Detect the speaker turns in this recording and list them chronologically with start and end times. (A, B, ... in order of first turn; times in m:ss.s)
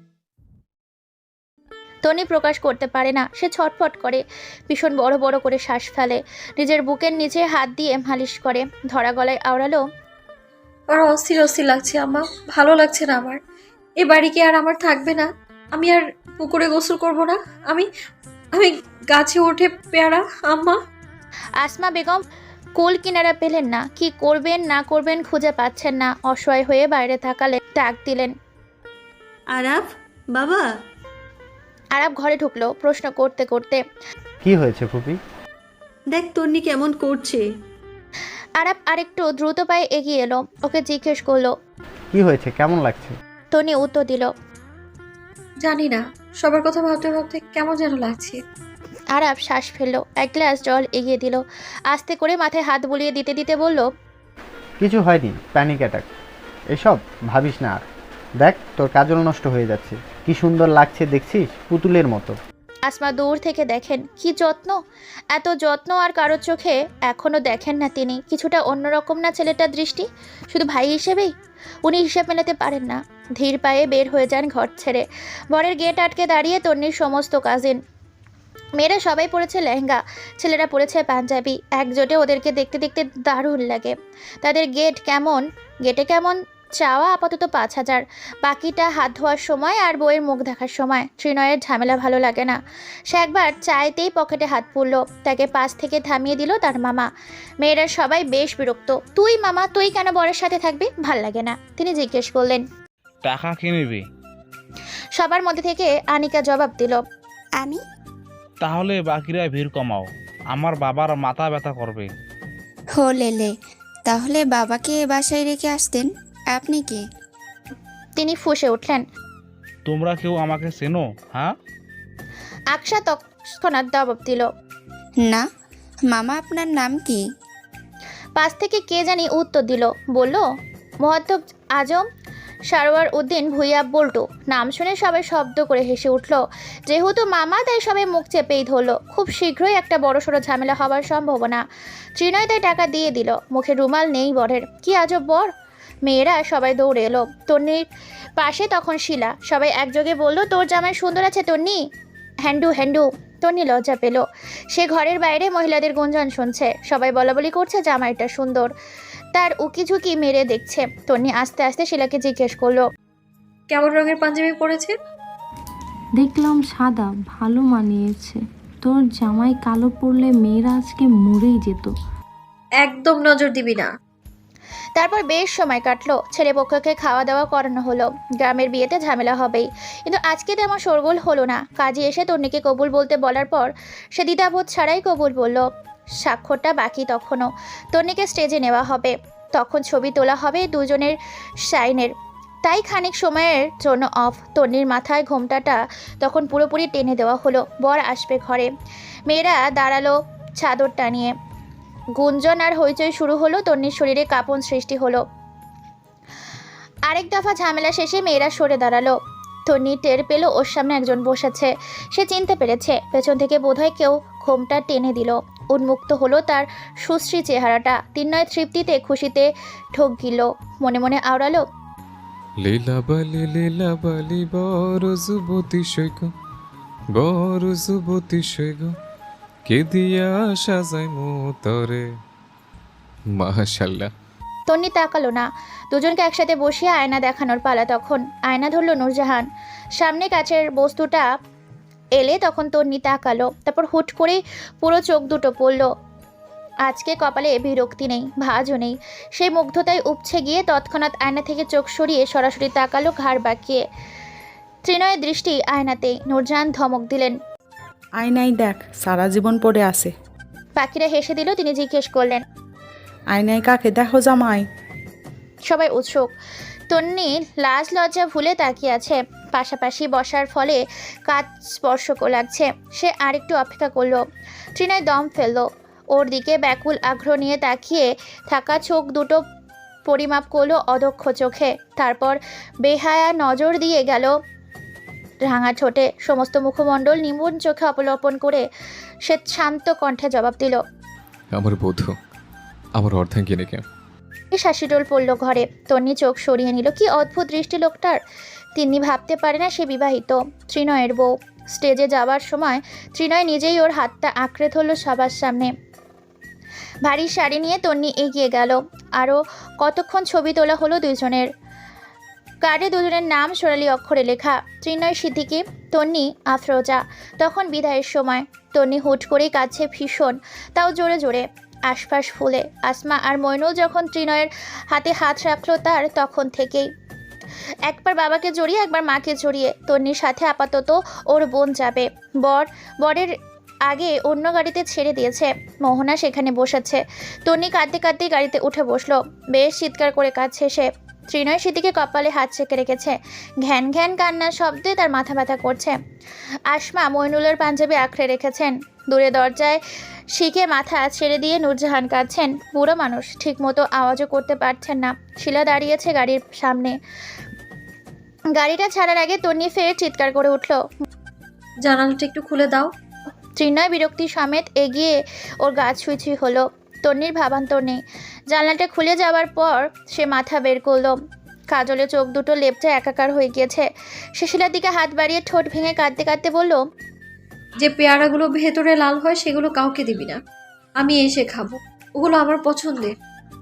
0:02.0-0:09.8 A
0:10.9-0:13.4 B
0:14.0-0:17.9 B
0:18.5-0:20.8 B
0:21.6-0:22.2 A
0:22.8-0:28.3 A
0:29.5-0:30.7 C
0:32.0-0:33.8 A
0:34.4-0:35.2 D
0:36.1-0:37.5 C
0:38.6-0:41.5 A
0:42.1-0:43.1 D
0:43.5-0:44.3 A
0:45.6-0:48.4 B
0:49.1-0:53.9 A
0:54.8-0:56.0 D
0:56.7-0:57.8 D
0:58.4-1:02.4 D
1:02.9-1:04.8 A
1:05.3-1:11.3 A
1:11.8-1:17.8 A
1:18.8-1:32.6 A
1:33.1-1:37.1 A
1:37.6-1:42.6 A
1:43.2-1:44.0 E
1:45.2-1:47.0 A
1:48.6-1:52.1 E
1:53.0-1:53.5 F
1:54.1-1:57.0 F
1:58.2-1:59.0 A
1:59.9-2:01.5 E
2:02.7-2:04.5 A
2:06.1-2:07.2 F
2:08.4-2:10.4 A
2:11.0-2:12.0 A
2:12.7-2:21.6 A
2:22.2-2:25.5 A
2:26.1-2:27.8 A
2:28.4-2:31.8 A
2:32.5-2:38.7 A
2:39.4-2:42.8 A
2:43.7-2:44.9 B
2:46.2-2:51.9 G
2:52.8-2:53.9 B
2:55.0-3:05.6 A
3:06.2-3:12.1 A
3:12.6-3:18.7 A
3:19.3-3:21.3 A
3:22.2-3:25.2 A
3:27.1-3:29.2 A
3:29.7-3:41.6 A
3:42.6-3:46.3 H
3:47.2-3:48.9 H
3:49.7-3:52.0 H
3:53.4-3:54.1 H
3:54.7-3:59.5 A
4:00.0-4:01.3 A
4:02.2-4:05.9 A
4:06.8-4:13.8 A
4:14.8-4:17.4 A
4:18.2-4:20.1 I
4:20.8-4:22.4 A
4:23.3-4:24.6 I
4:25.7-4:26.3 A
4:26.9-4:34.2 A
4:34.8-4:39.4 A
4:40.1-4:44.3 A
4:45.4-4:48.6 A
4:49.3-4:50.8 A
4:51.5-4:52.1 H
4:53.0-4:53.8 H
4:54.5-4:58.2 A
4:58.8-5:05.7 A
5:07.1-5:11.5 A
5:12.6-5:26.9 A
5:27.9-5:33.3 A
5:33.9-5:45.9 A
5:46.7-5:49.8 A
5:50.4-5:56.9 A
5:58.6-6:00.8 A
6:01.8-6:02.9 B
6:03.6-6:08.0 A
6:08.5-6:11.2 A
6:11.7-6:13.8 A
6:14.4-6:16.8 A
6:17.8-6:20.4 B
6:21.0-6:23.1 B